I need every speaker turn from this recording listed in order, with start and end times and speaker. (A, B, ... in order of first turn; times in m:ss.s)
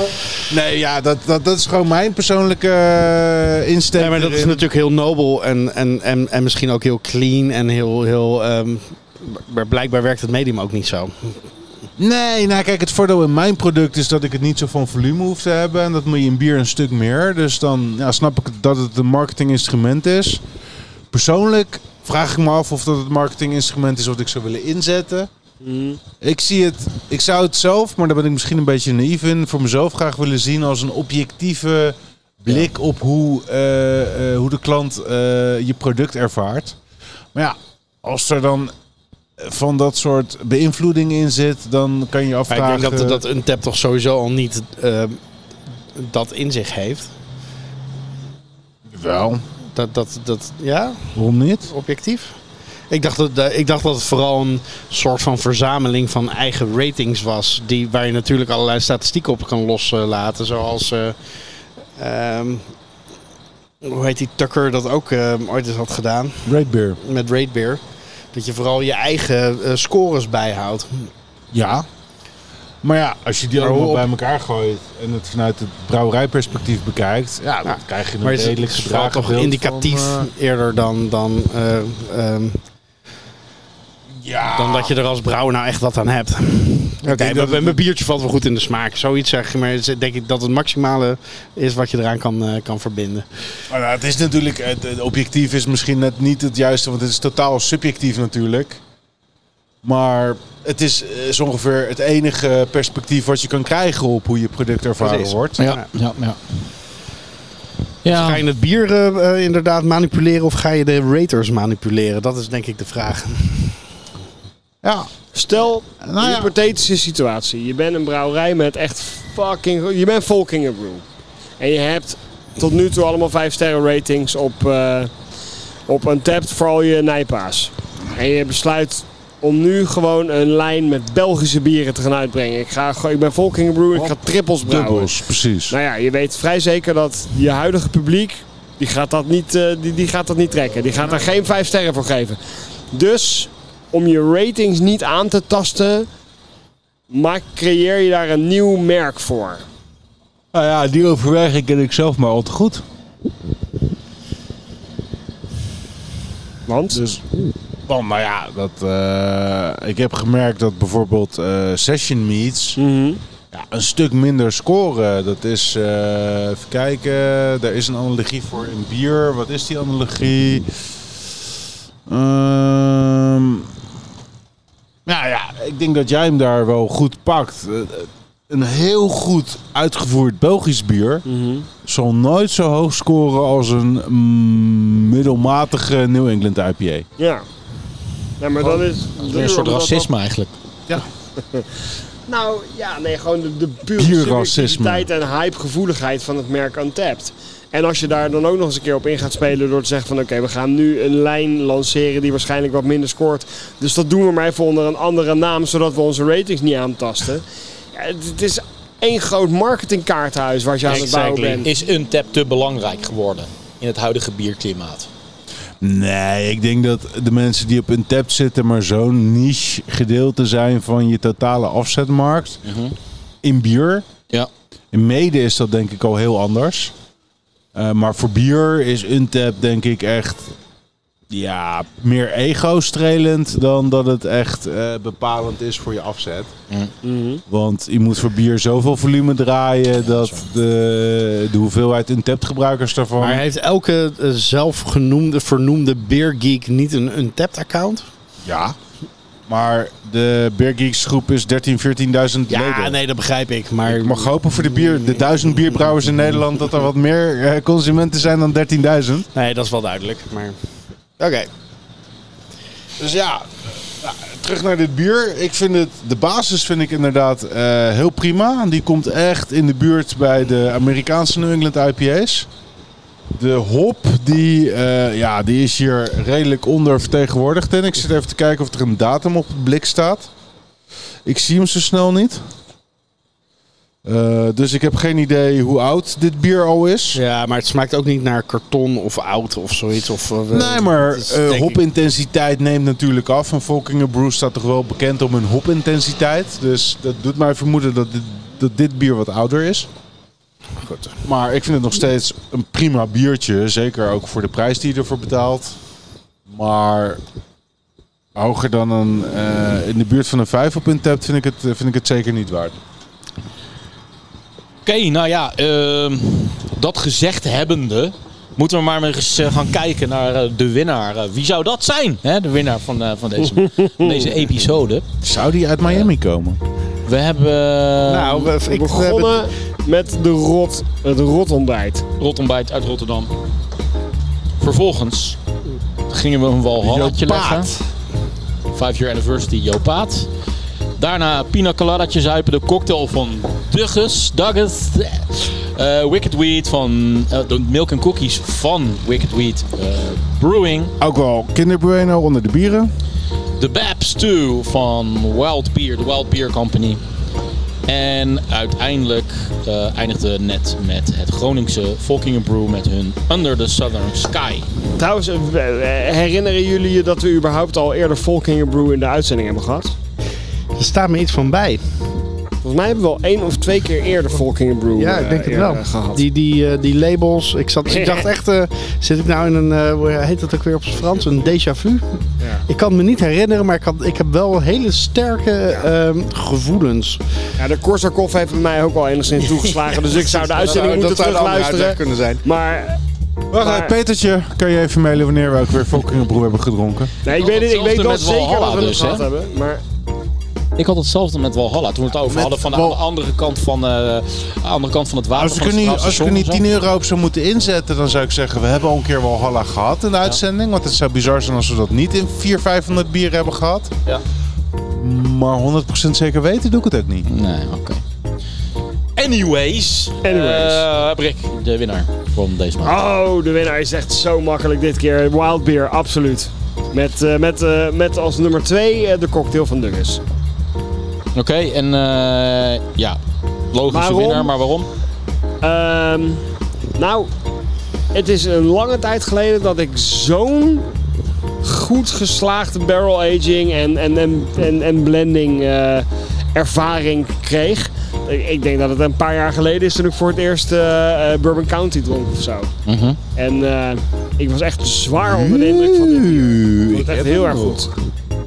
0:00.5-0:04.6 A
0:04.0-0:11.4 B
0:12.0-0:20.4 A
0:21.1-0:25.3 A
0:25.6-0:26.0 C
0:26.2-0:36.8 A
0:37.3-0:38.7 A
0:39.4-0:43.2 A
0:42.5-0:45.2 B
0:45.9-0:47.1 B
0:48.9-0:49.4 A
0:49.7-0:51.1 B
0:51.1-0:51.7 A
0:51.7-0:52.4 B
0:52.9-1:01.2 B
1:02.0-1:02.7 B
1:03.8-1:06.4 B
1:06.4-1:07.0 A
1:07.0-1:11.1 B
1:11.5-1:11.8 A
1:12.8-1:20.3 A
1:13.6-1:14.0 B
1:17.6-1:22.6 B
1:24.1-1:24.9 A
1:24.5-1:33.3 B
1:27.0-1:27.8 A
1:33.7-1:38.8 A
1:39.8-1:45.6 A
1:45.0-1:45.8 B
1:45.6-1:46.4 D
1:48.0-1:48.4 D
1:48.0-1:53.8 B
1:54.8-1:55.1 A
1:55.3-2:01.0 C
1:56.0-1:56.5 A
2:01.6-2:05.1 C
2:05.9-2:15.1 C
2:13.9-2:15.8 A
2:15.7-2:22.4 C
2:22.9-2:26.1 C
2:27.1-2:29.6 C
2:30.5-2:32.8 A
2:36.7-2:37.0 C
2:36.9-2:37.2 A
2:37.8-2:42.8 A
2:42.8-2:43.2 C
2:43.5-2:50.9 A
2:52.1-2:53.7 A
2:55.0-3:01.2 A
3:01.2-3:01.7 C
3:01.8-3:07.0 A
3:07.2-3:07.4 C
3:08.4-3:09.9 C
3:08.6-3:10.1 A
3:09.2-3:10.5 D
3:12.3-3:31.7 C
3:14.0-3:15.1 A
3:30.8-3:31.6 B
3:31.6-3:35.1 D
3:35.8-3:42.6 A
3:42.6-3:43.0 D
3:43.4-3:44.0 A
3:44.9-3:46.9 A
3:47.7-3:50.5 A
3:51.3-3:56.5 A
3:57.0-3:57.4 C
3:57.5-4:03.4 A
4:00.0-4:00.4 D
4:03.2-4:08.1 B
4:08.4-4:08.8 A
4:09.5-4:13.0 A
4:12.5-4:15.4 B
4:13.8-4:19.3 A
4:19.3-4:20.6 B
4:21.2-4:21.5 B
4:23.0-4:32.5 A
4:33.4-4:40.3 A
4:41.2-4:42.4 A
4:44.0-4:47.2 A
4:47.1-4:51.8 B
4:50.5-4:59.9 A
5:00.8-5:01.2 B
5:01.2-5:05.8 A
5:06.5-5:07.2 A
5:08.3-5:12.8 A
5:14.8-5:25.1 D
5:23.6-5:24.3 C
5:25.2-5:26.6 A
5:27.0-5:28.5 D
5:28.1-5:29.4 B
5:28.7-5:32.0 C
5:32.2-5:33.3 D
5:34.6-5:35.4 D
5:36.1-5:37.7 D
5:36.8-5:37.8 A
5:38.7-5:40.3 D
5:41.0-5:50.9 D
5:51.0-5:52.9 A
5:53.6-5:57.0 D
5:57.8-6:04.7 D
6:05.0-6:09.9 C
6:10.8-6:12.0 B
6:12.6-6:16.2 C
6:15.0-6:27.2 B
6:17.8-6:18.3 C
6:27.6-6:33.0 C
6:30.1-6:32.4 B
6:33.5-6:37.1 A
6:33.6-6:34.0 C
6:37.2-6:39.8 C
6:37.3-6:39.2 D
6:40.8-6:46.6 D
6:42.3-6:43.0 A
6:45.4-6:53.9 A
6:54.8-6:57.3 A
6:57.2-6:58.0 D
6:59.2-7:03.0 D
7:00.2-7:00.8 C
7:02.8-7:10.2 C
7:11.3-7:13.2 D
7:13.7-7:14.9 D
7:13.9-7:14.5 C
7:15.6-7:17.3 C
7:18.1-7:20.9 C
7:21.6-7:32.7 C
7:32.8-7:33.2 D
7:33.3-7:37.9 C
7:35.3-7:37.9 A